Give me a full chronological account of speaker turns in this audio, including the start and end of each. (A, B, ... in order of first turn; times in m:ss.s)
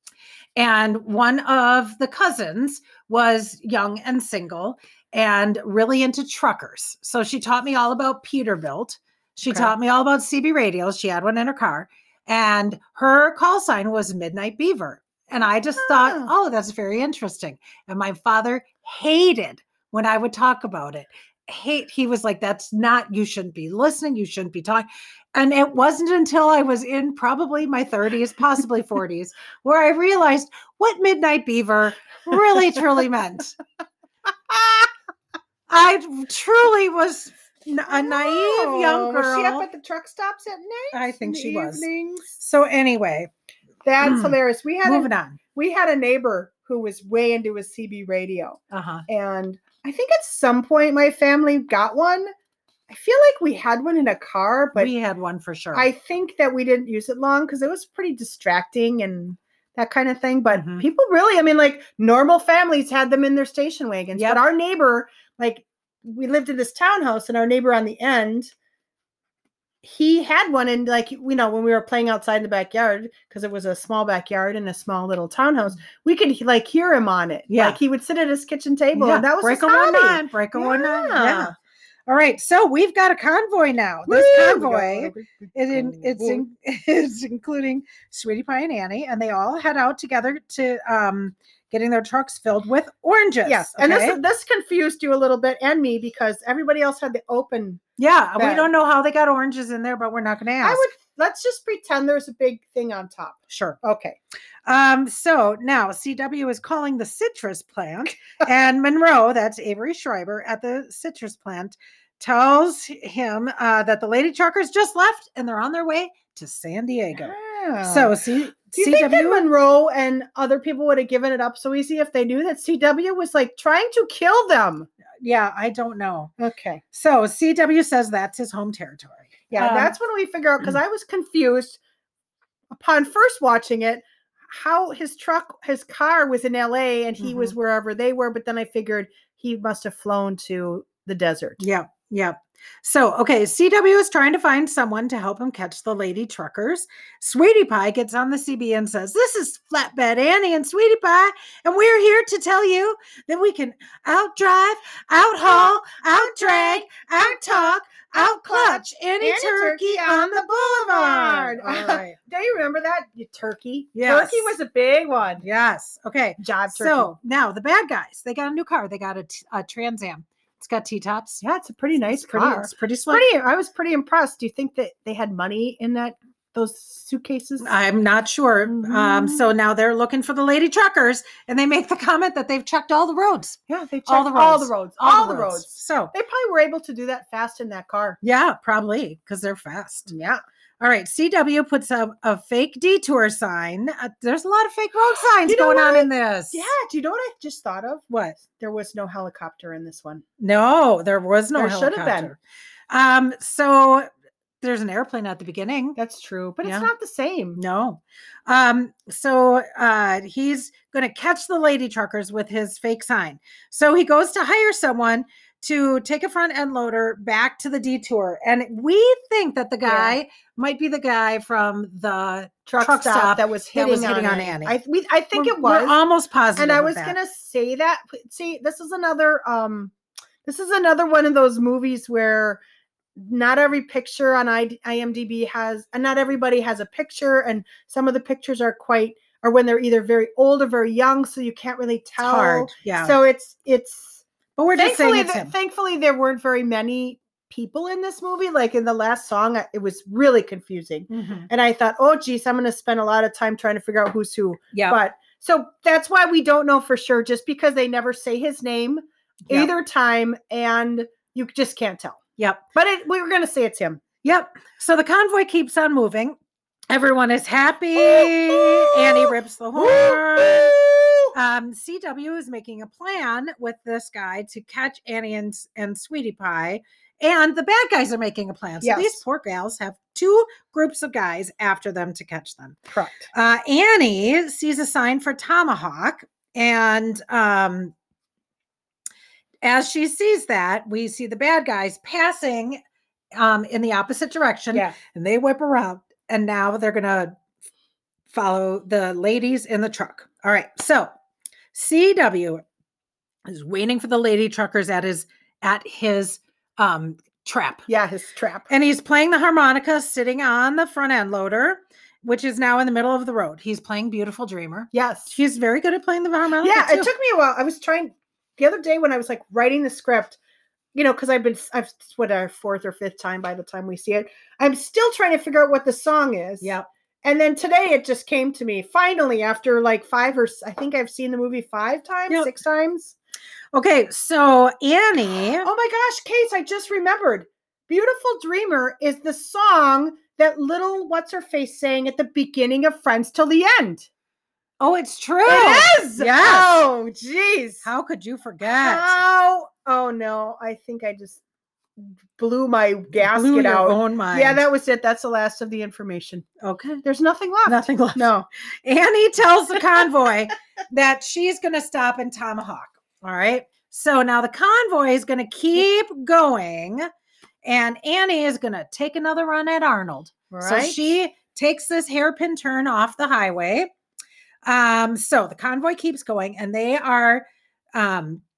0:00.6-0:33.6 A
0:09.4-0:09.7 B
0:15.8-0:16.3 B
0:35.7-0:39.6 A
0:37.9-0:42.2 B
0:40.9-0:43.3 A
0:43.8-0:52.3 B
0:44.0-0:45.4 A
0:48.7-0:49.0 A
0:52.9-0:54.9 B
0:54.8-0:55.9 A
0:55.7-1:08.5 B
1:00.5-1:00.8 A
1:04.1-1:04.4 A
1:09.8-1:21.5 B
1:17.5-1:17.8 A
1:18.9-1:21.5 A
1:22.1-1:34.2 A
1:24.1-1:26.4 B
1:33.4-1:37.8 B
1:38.0-1:40.8 A
1:38.4-1:38.7 B
1:40.6-1:44.2 B
1:43.5-1:43.8 A
1:44.6-1:59.5 A
1:57.1-1:58.1 B
1:58.7-2:04.9 B
2:05.2-2:06.3 A
2:06.4-2:06.8 B
2:06.9-2:10.0 A
2:09.5-2:11.8 B
2:12.7-2:21.6 B
2:17.2-2:17.5 A
2:21.6-2:42.2 A
2:35.4-2:45.4 B
2:43.9-2:44.5 A
2:45.4-2:51.4 A
2:46.4-2:47.1 B
2:51.4-2:57.7 B
2:52.1-2:53.2 A
2:57.6-3:06.1 A
2:58.7-2:59.4 B
3:03.7-3:08.2 B
3:08.2-3:10.1 A
3:10.1-3:10.4 B
3:10.8-3:16.7 A
3:15.4-3:20.2 B
3:18.1-3:18.4 A
3:20.4-3:22.4 A
3:21.6-3:22.3 B
3:22.9-3:24.1 A
3:24.6-3:26.0 A
3:26.0-3:27.6 B
3:26.6-3:26.9 A
3:27.6-3:44.8 A
3:39.8-3:40.2 B
3:42.7-3:46.0 B
3:45.3-3:47.2 A
3:46.6-3:52.6 B
3:53.2-4:04.2 B
4:02.2-4:03.2 A
4:04.6-4:05.5 A
4:04.8-4:22.2 B
4:11.1-4:11.5 A
4:14.7-4:15.0 A
4:22.4-4:22.6 A
4:22.7-4:24.0 B
4:24.2-4:26.4 A
4:26.9-4:30.8 A
4:28.0-4:31.3 B
4:31.3-4:47.9 A
4:38.8-4:39.2 B
4:42.9-4:43.3 B
4:49.6-4:52.8 A
4:53.3-4:57.4 A
4:58.3-5:01.1 A
5:01.7-5:02.6 A
5:03.4-5:07.8 A
5:07.9-5:08.7 B
5:08.7-5:17.1 A
5:14.9-5:15.3 B
5:16.6-5:20.4 B
5:20.9-5:33.2 B
5:26.6-5:26.9 A
5:33.7-5:35.7 A
5:35.6-5:44.1 B
5:44.8-5:46.8 A
5:45.4-5:47.9 B
5:47.8-5:49.2 A
5:48.6-5:51.4 B
5:52.0-5:56.5 B
5:53.1-5:54.6 A
5:56.6-5:57.0 A
5:57.0-5:58.5 B
5:57.6-5:58.3 A
5:58.8-6:07.1 A
6:07.6-6:13.9 A
6:10.5-6:11.0 B
6:14.6-6:18.4 A